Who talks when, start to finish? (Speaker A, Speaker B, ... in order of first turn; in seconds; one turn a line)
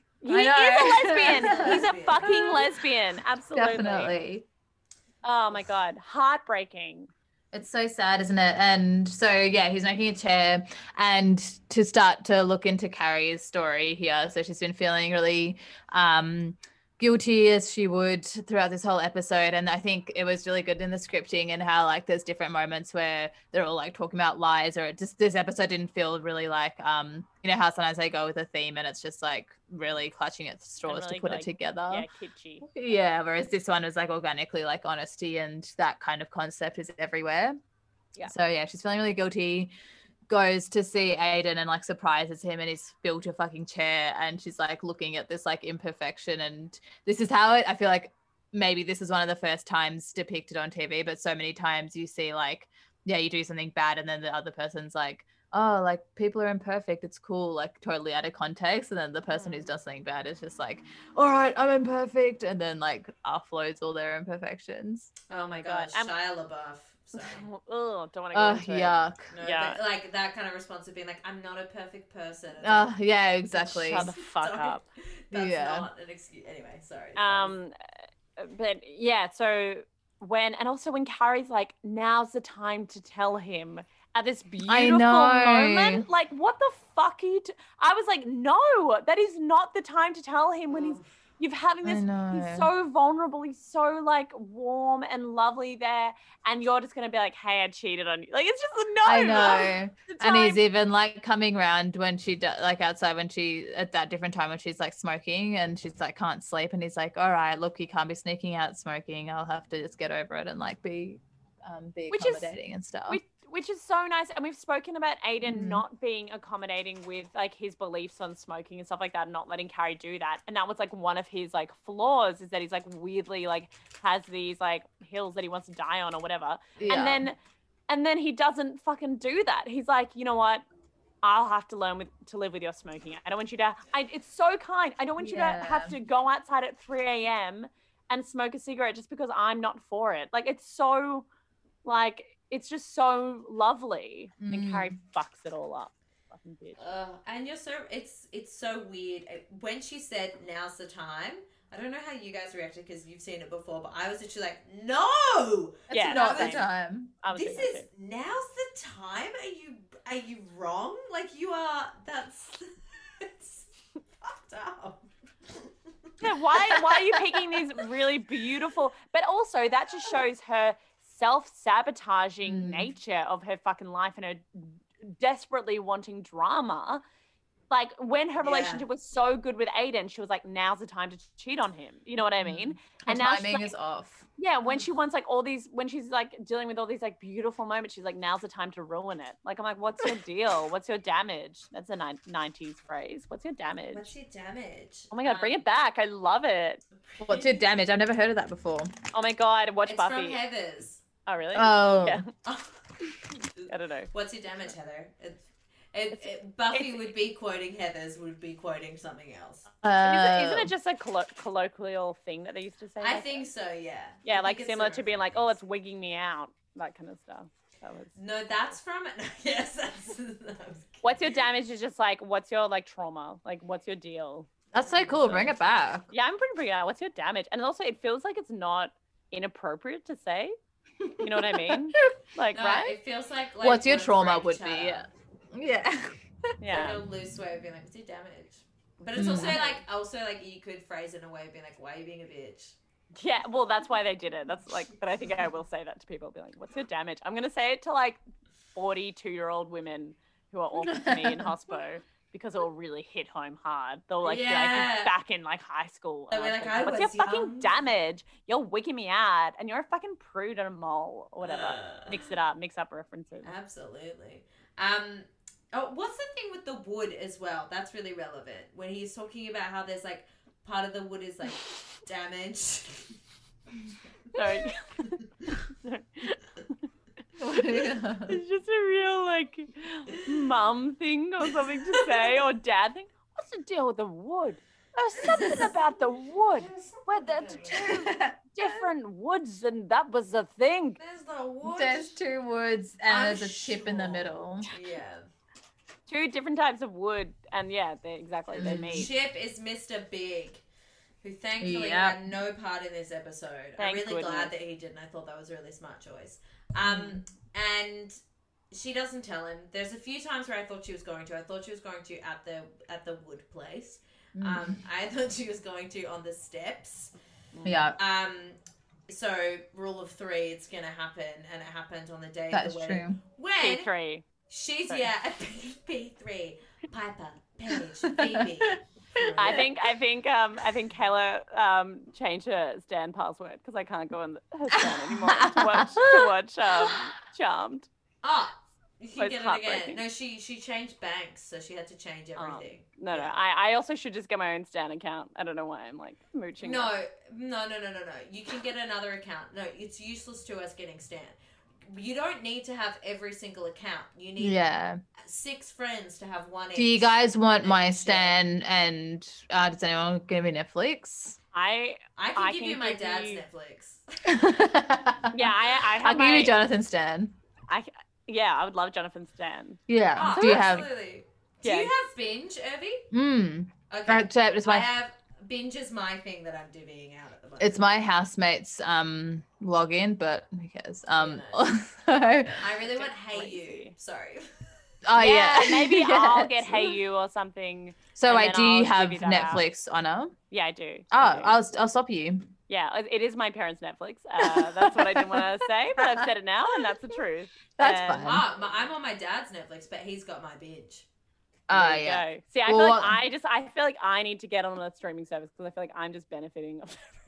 Speaker A: 0.2-4.1
Speaker B: 0.3-2.6
Speaker C: 1.2-2.6
Speaker B: 3.5-4.5
Speaker A: 5.2-7.1
Speaker B: 7.5-32.0
Speaker A: 30.9-32.7
Speaker B: 32.6-37.6
Speaker B: 38.2-39.7
Speaker B: 40.3-65.1
Speaker C: 65.3-67.5
Speaker A: 65.4-66.1
Speaker A: 67.2-69.8
Speaker B: 68.3-69.3
Speaker C: 69.3-72.9
Speaker B: 72.6-74.1
Speaker C: 73.5-77.5
Speaker A: 73.8-74.8
Speaker B: 75.3-75.9
Speaker A: 77.2-77.7
Speaker A: 78.4-100.6
Speaker B: 84.7-86.0
Speaker C: 90.7-91.1
Speaker B: 91.8-92.7
Speaker B: 99.0-113.2
Speaker A: 112.1-112.5
Speaker A: 113.1-127.4
Speaker B: 115.4-115.8
Speaker B: 126.8-127.3
Speaker A: 127.9-130.6
Speaker A: 131.2-141.3
Speaker B: 135.2-135.9
Speaker A: 141.8-146.9
Speaker B: 144.4-144.9
Speaker C: 146.8-156.7
Speaker A: 155.9-156.7
Speaker B: 155.9-157.1
Speaker A: 157.2-157.9
Speaker C: 157.3-163.7
Speaker C: 164.2-165.7
Speaker A: 166.2-177.0
Speaker C: 166.5-167.2
Speaker B: 172.4-172.9
Speaker A: 177.7-183.7
Speaker C: 178.4-178.8
Speaker B: 182.4-184.3
Speaker A: 184.4-194.1
Speaker C: 193.9-195.6
Speaker A: 195.1-196.8
Speaker C: 197.0-197.6
Speaker B: 197.2-198.9
Speaker A: 199.1-200.4
Speaker C: 199.9-201.0
Speaker A: 201.3-202.3
Speaker B: 201.5-202.2
Speaker C: 202.4-205.4
Speaker A: 203.7-204.1
Speaker C: 205.9-209.7
Speaker A: 206.2-207.0
Speaker B: 209.8-210.7
Speaker A: 210.0-213.4
Speaker C: 213.0-215.6
Speaker A: 214.2-218.2
Speaker C: 218.2-221.3
Speaker A: 221.0-224.5
Speaker B: 224.7-226.1
Speaker C: 224.8-225.3
Speaker A: 226.1-230.6
Speaker B: 231.0-232.1
Speaker A: 231.2-233.0
Speaker C: 232.6-235.1
Speaker B: 233.6-236.2
Speaker A: 236.6-237.0
Speaker C: 236.7-242.8
Speaker B: 239.2-239.6
Speaker A: 239.3-239.8
Speaker A: 243.2-248.2
Speaker A: 248.7-263.5
Speaker B: 250.9-251.5
Speaker C: 254.2-255.1
Speaker C: 256.3-257.7
Speaker C: 261.4-262.3
Speaker C: 263.4-273.2
Speaker C: 274.3-274.6
Speaker A: 274.3-276.8
Speaker B: 277.4-278.4
Speaker A: 277.6-291.0
Speaker C: 285.2-287.9
Speaker B: 287.8-288.8
Speaker C: 291.0-292.2
Speaker B: 291.6-294.7
Speaker C: 293.1-295.3
Speaker A: 296.1-299.1
Speaker C: 298.5-300.6
Speaker B: 298.6-299.1
Speaker C: 301.2-308.1
Speaker B: 301.6-302.3
Speaker A: 303.8-304.5
Speaker B: 306.8-307.2
Speaker C: 308.7-317.1
Speaker B: 314.4-314.8
Speaker A: 317.6-317.8
Speaker B: 317.6-318.0
Speaker C: 318.0-323.9
Speaker B: 322.5-323.2
Speaker A: 323.6-324.2
Speaker C: 324.5-329.7
Speaker B: 328.1-329.6
Speaker A: 329.4-337.9
Speaker B: 334.8-337.0
Speaker C: 338.2-343.3
Speaker A: 339.2-340.0
Speaker A: 342.4-346.9
Speaker C: 346.6-354.6
Speaker B: 354.4-355.0
Speaker C: 355.2-358.4
Speaker B: 356.7-361.4
Speaker A: 361.5-363.4
Speaker C: 362.2-364.6
Speaker B: 364.3-367.3
Speaker A: 365.3-366.5
Speaker A: 367.7-370.9
Speaker B: 369.9-370.9
Speaker C: 370.1-373.1
Speaker A: 371.6-371.9
Speaker B: 373.1-374.9
Speaker C: 373.9-377.8
Speaker B: 377.6-382.6
Speaker C: 381.1-381.7
Speaker C: 382.5-384.5
Speaker A: 382.8-383.9
Speaker B: 385.0-387.0
Speaker A: 385.2-389.6
Speaker B: 388.1-390.4
Speaker A: 390.5-391.6
Speaker B: 391.1-392.4
Speaker A: 392.7-398.4
Speaker B: 394.4-396.3
Speaker B: 397.8-398.4
Speaker C: 398.2-401.1
Speaker B: 401.7-403.2
Speaker A: 401.7-407.1